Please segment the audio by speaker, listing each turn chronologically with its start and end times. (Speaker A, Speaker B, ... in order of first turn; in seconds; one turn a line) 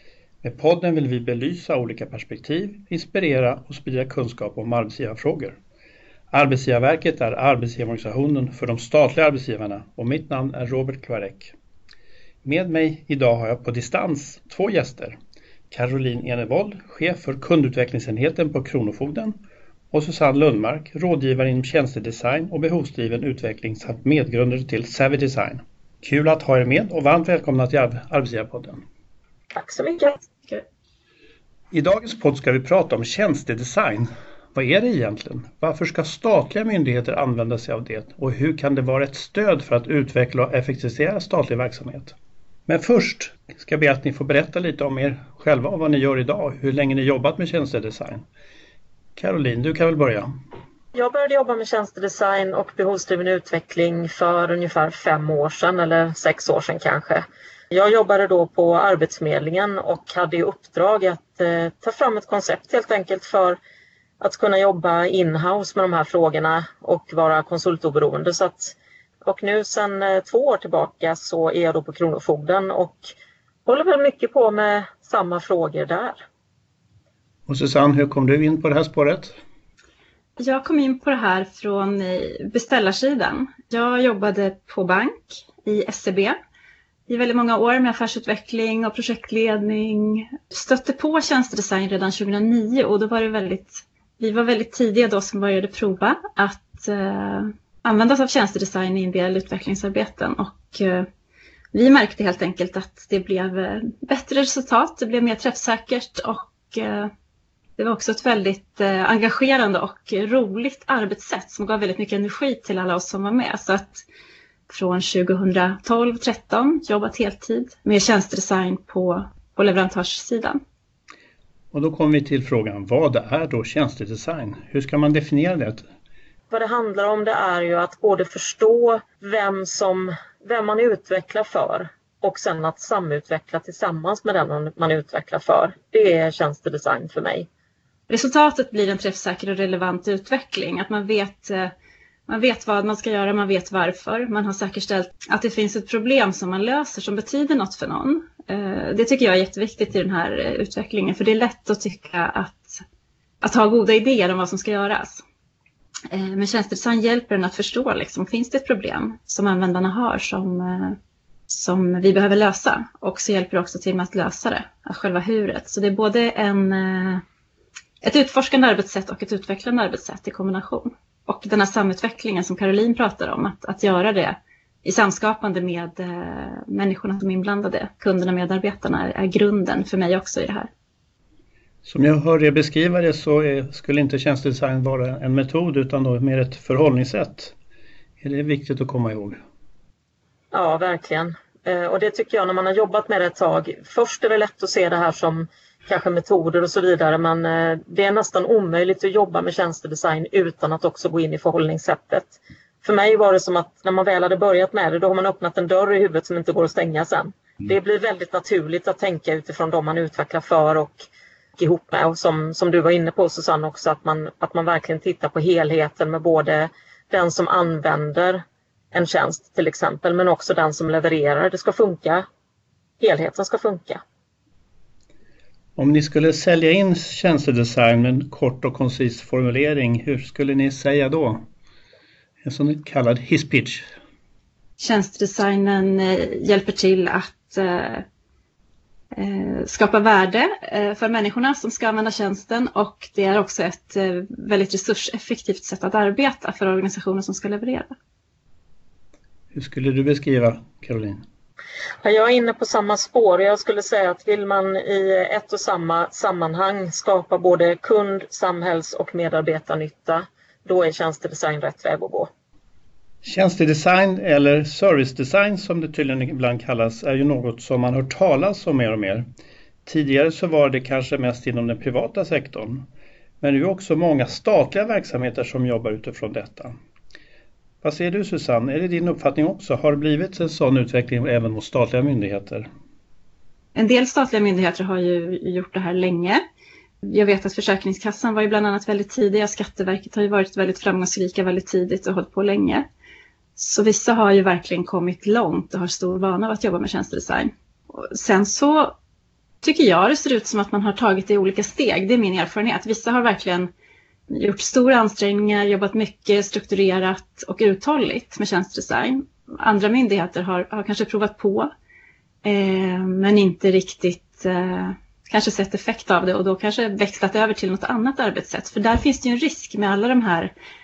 Speaker A: 0.4-5.6
Speaker A: 6.3-11.5
Speaker A: 12.4-15.2
Speaker A: 15.7-19.4
Speaker A: 19.9-28.8
Speaker B: 29.5-30.6
Speaker A: 31.7-42.1
Speaker A: 42.7-48.2
Speaker A: 49.1-50.3
Speaker B: 50.9-63.6
Speaker B: 64.2-73.1
Speaker B: 73.7-76.2
Speaker A: 77.5-79.3
Speaker C: 80.4-86.4
Speaker C: 87.1-101.1
Speaker C: 101.7-107.1
Speaker C: 107.8-114.0
Speaker C: 114.7-120.6
Speaker A: 121.7-125.8
Speaker B: 126.5-137.5
Speaker C: 138.1-141.7
Speaker C: 142.3-152.8
Speaker C: 153.4-155.2
Speaker C: 156.1-161.0
Speaker C: 161.5-167.2
Speaker C: 168.0-180.7
Speaker A: 181.8-187.5
Speaker A: 188.2-189.4
Speaker B: 190.5-211.0
Speaker B: 211.6-222.2
Speaker B: 223.0-224.0
Speaker A: 225.8-231.4
Speaker A: 232.4-233.8
Speaker C: 234.8-238.0
Speaker C: 239.1-247.9
Speaker A: 249.5-251.2
Speaker B: 252.0-262.3
Speaker A: 263.2-269.2
Speaker A: 269.8-272.9
Speaker A: 273.4-276.7
Speaker A: 277.8-282.7
Speaker C: 283.7-286.4
Speaker C: 287.0-292.8
Speaker C: 293.6-298.9
Speaker C: 299.6-303.7
Speaker C: 304.3-311.7
Speaker C: 312.4-320.5